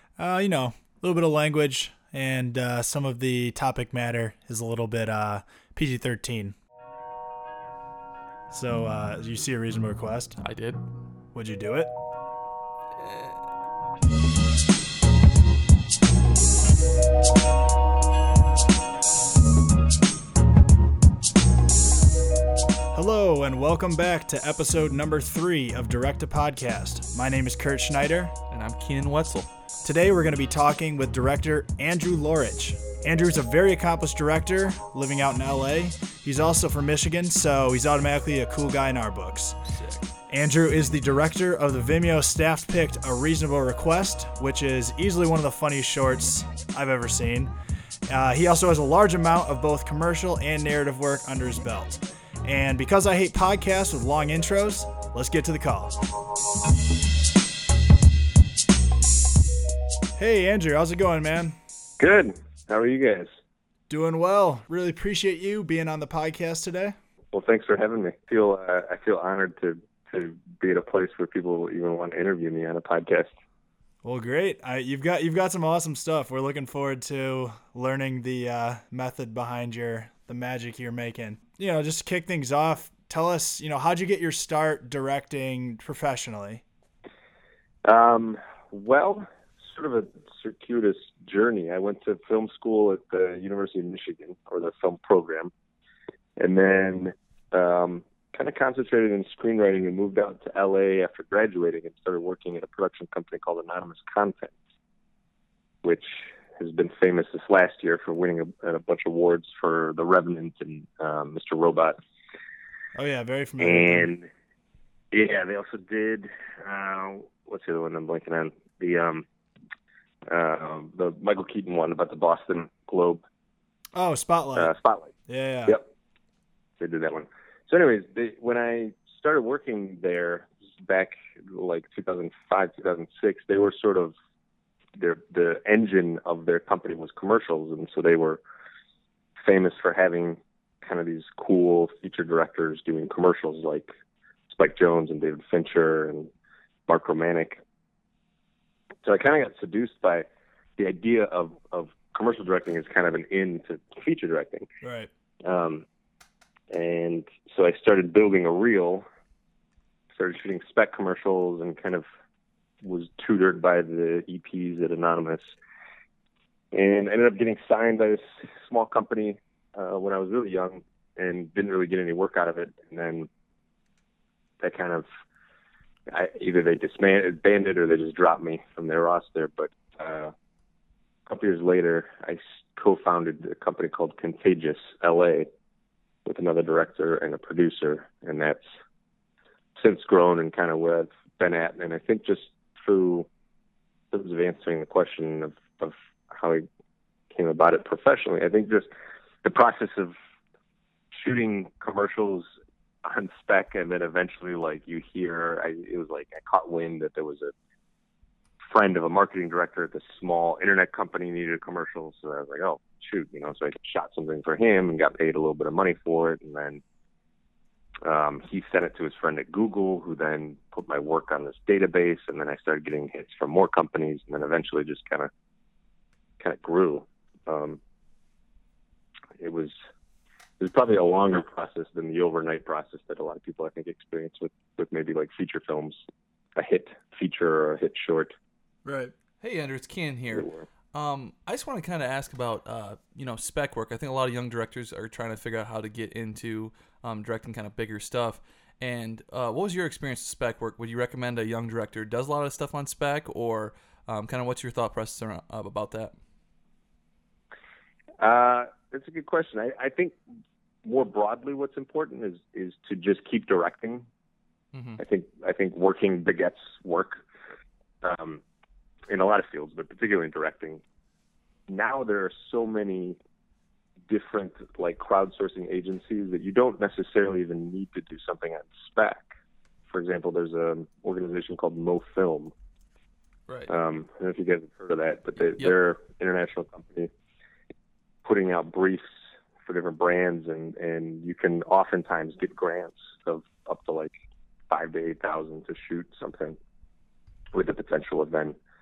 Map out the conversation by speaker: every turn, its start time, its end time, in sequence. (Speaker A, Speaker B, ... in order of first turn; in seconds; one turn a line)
Speaker A: 0.2-6.5
Speaker A: 8.5-10.4
Speaker B: 10.4-10.8
Speaker A: 11.3-11.9
Speaker B: 13.0-13.4
Speaker A: 22.9-28.4
Speaker B: 28.5-29.5
Speaker A: 29.9-39.6
Speaker B: 39.7-40.1
Speaker A: 40.3-47.5
Speaker A: 48.1-55.9
Speaker A: 60.2-61.6
Speaker C: 62.0-63.4
Speaker A: 63.9-67.0
Speaker C: 67.3-73.3
Speaker A: 74.0-86.6
Speaker C: 87.8-95.5
Speaker C: 96.4-104.5
Speaker C: 105.8-112.0
Speaker A: 113.0-114.1
Speaker C: 113.6-114.3
Speaker C: 115.1-119.2
Speaker C: 120.3-123.2
Speaker A: 124.0-124.7
Speaker C: 124.6-125.1
Speaker A: 125.3-125.8
Speaker C: 126.8-134.1
Speaker C: 135.0-138.4
Speaker C: 139.4-143.9
Speaker C: 144.5-146.3
Speaker C: 146.9-147.6
Speaker C: 149.0-154.7
Speaker A: 154.8-155.1
Speaker C: 155.4-155.8
Speaker C: 156.7-159.1
Speaker C: 160.2-162.1
Speaker C: 162.8-165.6
Speaker C: 166.7-173.3
Speaker C: 174.6-175.1
Speaker C: 176.1-180.3
Speaker C: 181.3-185.5
Speaker C: 186.2-188.6
Speaker C: 189.8-193.3
Speaker C: 194.1-196.7
Speaker C: 197.3-198.9
Speaker C: 199.4-200.1
Speaker C: 201.1-202.5
Speaker C: 203.0-207.5
Speaker C: 208.7-216.8
Speaker C: 218.1-225.3
Speaker C: 226.4-227.8
Speaker C: 229.4-229.7
Speaker C: 230.6-236.0
Speaker C: 236.6-238.3
Speaker A: 238.8-239.1
Speaker B: 239.4-256.1
Speaker C: 240.3-240.7
Speaker C: 258.2-260.2
Speaker C: 260.9-264.1
Speaker B: 264.7-265.0
Speaker C: 265.0-267.2
Speaker C: 268.0-268.4
Speaker C: 269.1-270.8
Speaker C: 271.7-273.2
Speaker C: 274.1-279.3
Speaker C: 279.9-282.5
Speaker C: 283.7-287.1
Speaker C: 288.2-289.1
Speaker C: 289.6-294.1
Speaker C: 294.7-296.6
Speaker C: 297.5-298.6